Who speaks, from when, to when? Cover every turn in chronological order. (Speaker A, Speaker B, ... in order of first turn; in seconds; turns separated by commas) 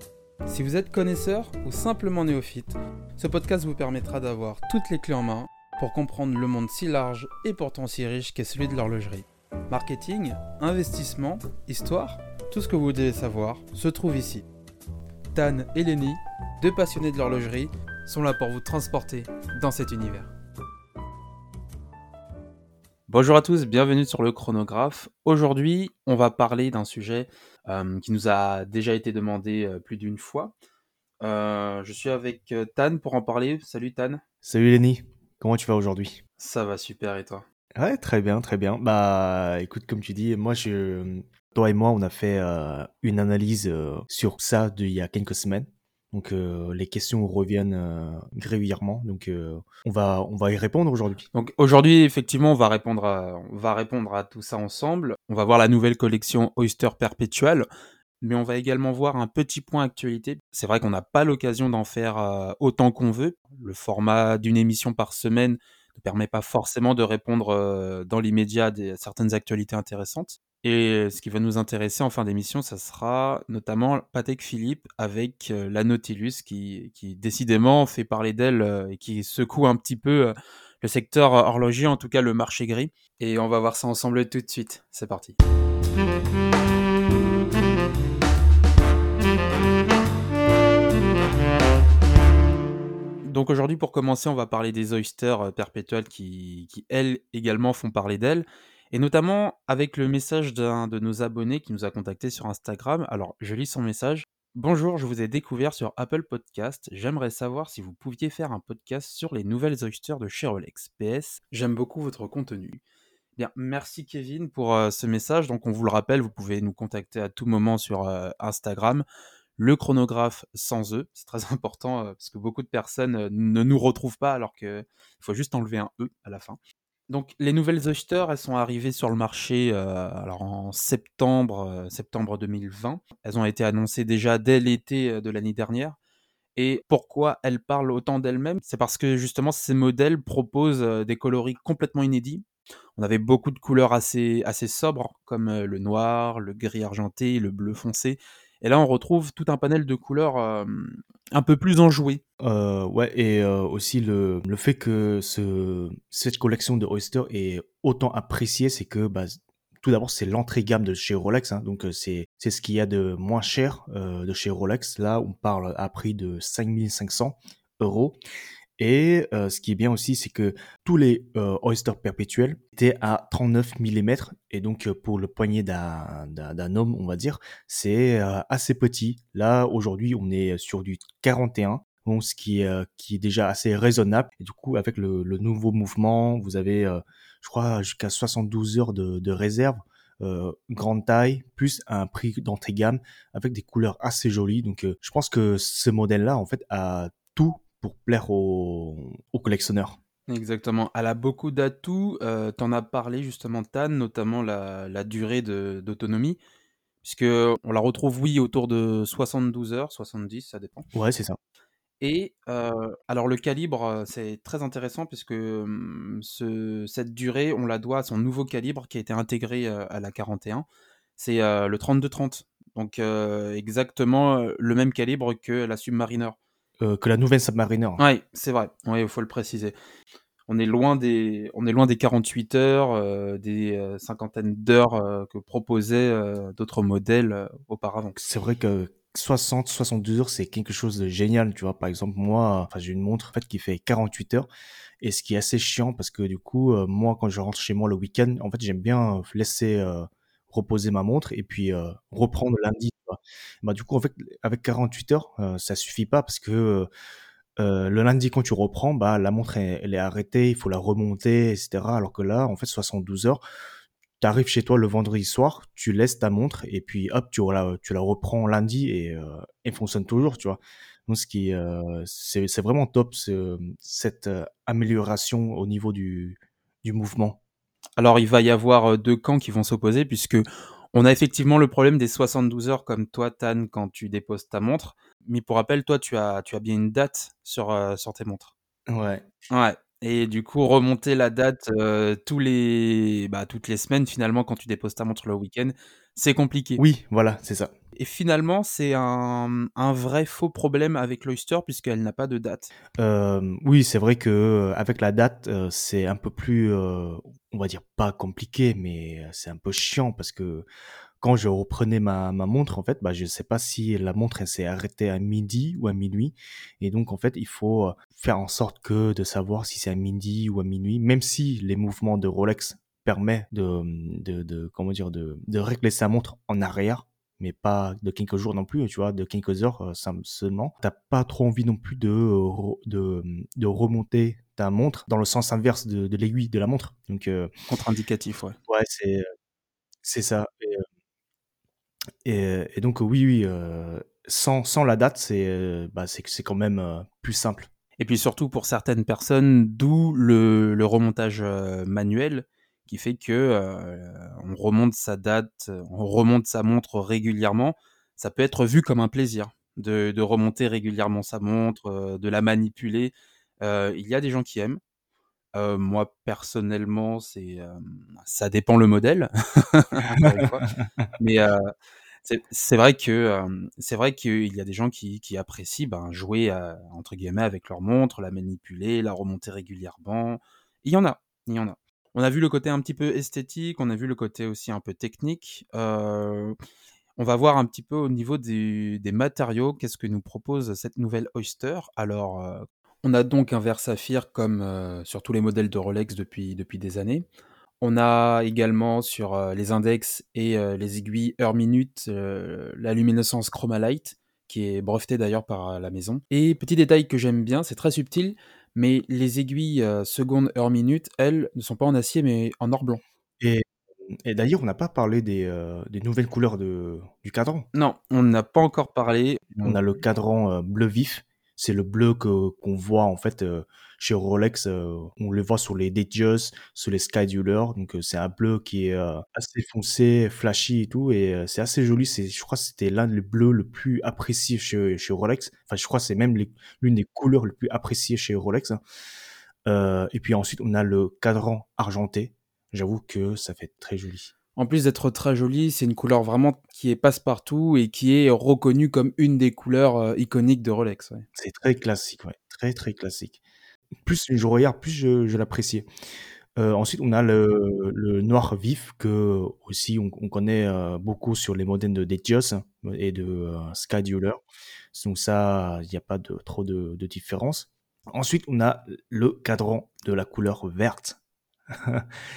Speaker A: 0.5-14.4, Speaker A: 15.3-20.3, Speaker A: 23.1-30.5, Speaker A: 31.2-34.2, Speaker B: 34.4-36.2, Speaker A: 36.4-37.5, Speaker B: 37.8-51.3, Speaker A: 51.3-57.7, Speaker A: 58.2-85.4, Speaker A: 93.2-112.8, Speaker A: 113.4-119.0, Speaker A: 119.6-136.0, Speaker A: 136.6-142.4, Speaker A: 143.0-152.2, Speaker B: 152.4-168.2, Speaker B: 168.8-200.0, Speaker A: 200.3-206.4, Speaker A: 207.0-210.9, Speaker B: 210.9-211.4, Speaker A: 212.0-220.7, Speaker A: 221.2-226.4, Speaker B: 226.8-228.0, Speaker A: 228.0-229.8, Speaker A: 230.5-238.2, Speaker B: 238.2-244.5, Speaker B: 245.0-256.9, Speaker B: 257.6-263.4, Speaker B: 264.2-277.4, Speaker A: 278.0-288.5, Speaker B: 288.9-289.2, Speaker A: 289.5-296.8, Speaker B: 296.8-297.7, Speaker A: 298.0-302.7, Speaker B: 303.0-310.7, Speaker B: 311.2-337.5, Speaker A: 337.7-338.6, Speaker B: 338.7-339.2, Speaker B: 340.0-340.8, Speaker B: 342.2-347.7, Speaker A: 348.0-364.8, Speaker A: 365.6-371.7, Speaker A: 372.2-386.6, Speaker A: 387.2-397.2, Speaker A: 397.8-413.0, Speaker B: 413.4-417.7, Speaker A: 417.7-419.8, Speaker B: 419.6-438.8, Speaker B: 439.7-444.3, Speaker A: 444.6-451.3, Speaker B: 451.4-453.4, Speaker B: 454.1-455.9, Speaker B: 456.6-464.4, Speaker B: 464.9-471.2, Speaker B: 471.7-472.1